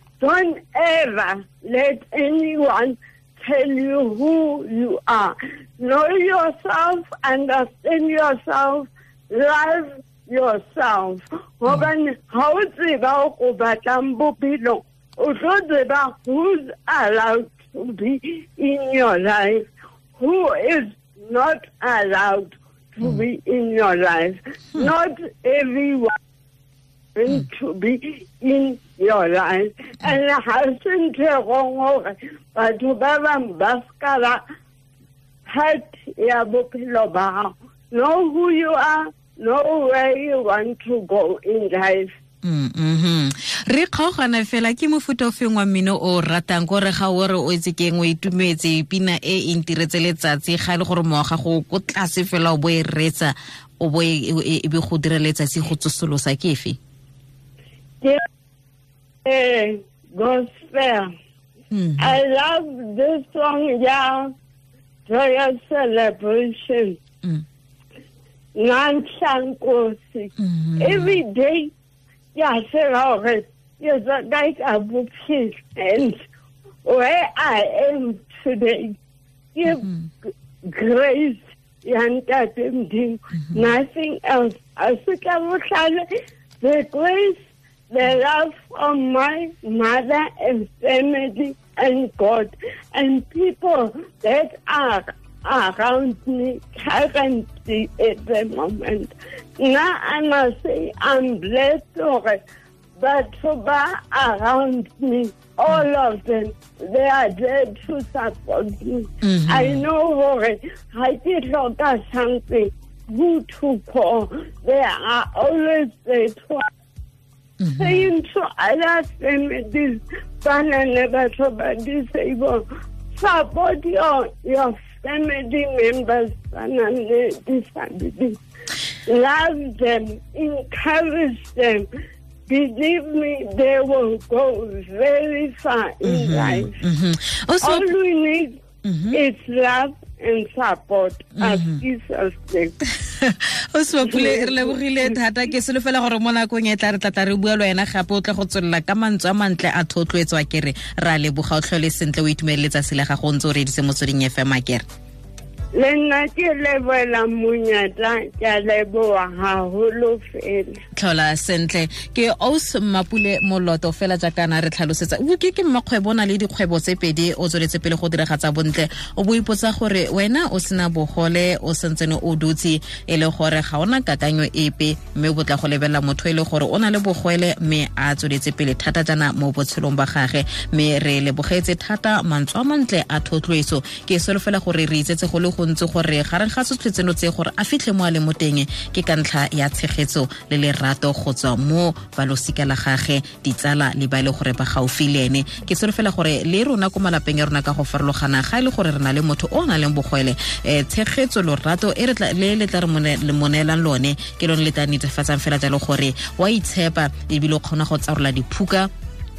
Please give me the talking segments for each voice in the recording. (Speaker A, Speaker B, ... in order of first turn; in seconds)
Speaker A: 0.2-26.1, 27.1-34.4, 35.5-42.1, 59.2-61.1, 62.0-64.3, 65.1-67.0, 68.5-71.7, 72.3-76.2, 76.8-79.0, 79.5-79.8, 80.6-86.1, 86.6-102.4, 103.0-116.7, 117.8-128.4, 129.1-131.9, 132.5-136.8, 137.6-138.6, 139.1-142.7, 144.0-145.1, 155.8-160.8
Speaker B: 42.4-56.8, 61.7-62.2, 70.4-71.2, 79.7-80.1, 109.2-109.8, 117.6-118.0, 136.0-137.8, 138.8-139.2, 141.4-141.8, 143.1-154.8, 160.9-208.9